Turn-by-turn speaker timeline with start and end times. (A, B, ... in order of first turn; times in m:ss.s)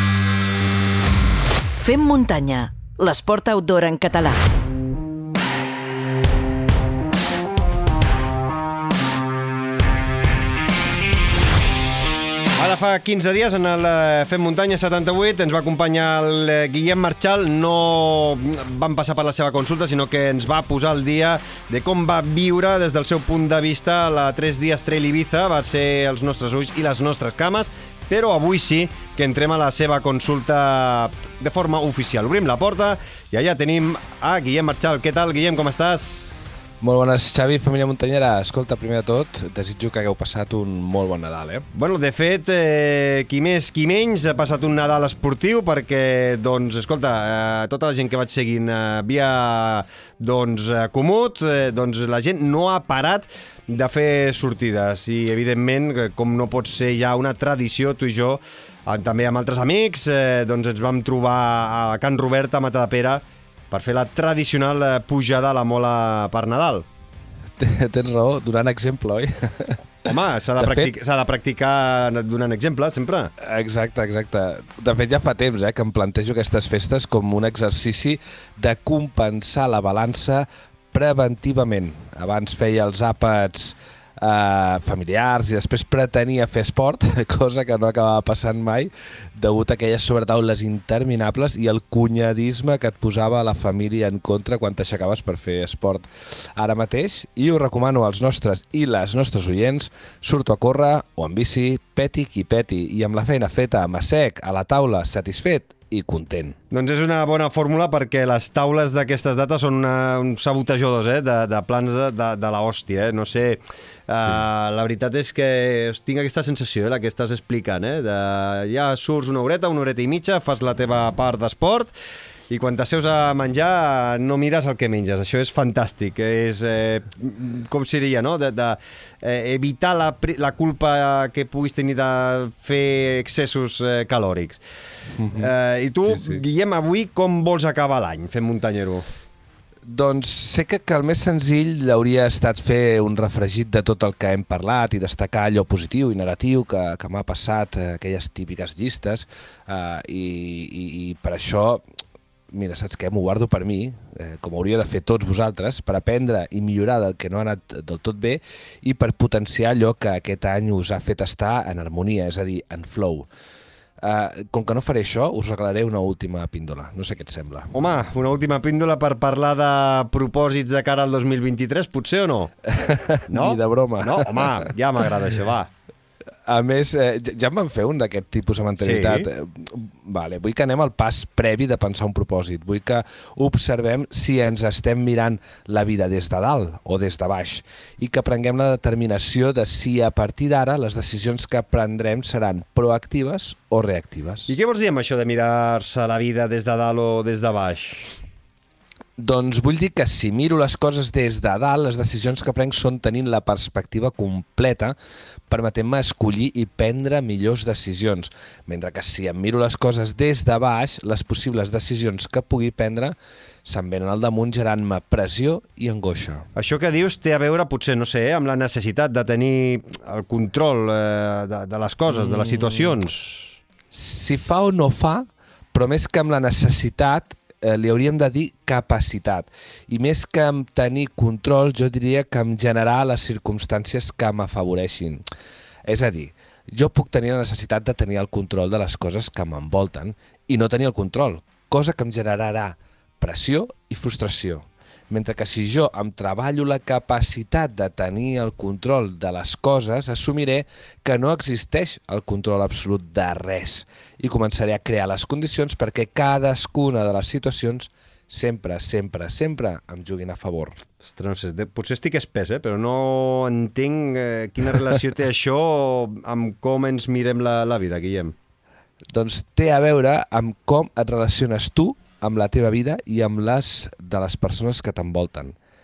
0:01.8-0:04.4 A
0:12.6-0:36.3 B
0:36.8-0:41.6 C
0:41.7-1:06.8 B
1:07.6-1:10.1 C
1:10.0-1:13.3 B
1:10.6-1:10.9 C
1:13.4-1:46.6 C
1:46.7-2:01.9 B
2:02.5-2:14.6 B
2:15.2-2:15.5 C
2:15.4-2:19.0 B
2:16.1-2:16.4 C
2:19.9-2:31.8 C
2:32.5-2:43.2 C
2:44.0-2:47.7 C
2:47.7-2:52.5 B
2:52.7-2:54.7 C
2:53.3-2:55.7 B
2:56.5-3:14.5 C
2:58.8-2:59.3 B
3:14.5-3:18.2 B
3:19.2-3:25.0 C
3:25.5-3:36.4 C
3:36.5-3:43.6 B
3:42.1-3:43.0 C
3:43.9-3:55.2 C
3:55.8-4:20.8 C
4:21.0-4:28.3 B
4:29.1-4:35.5 C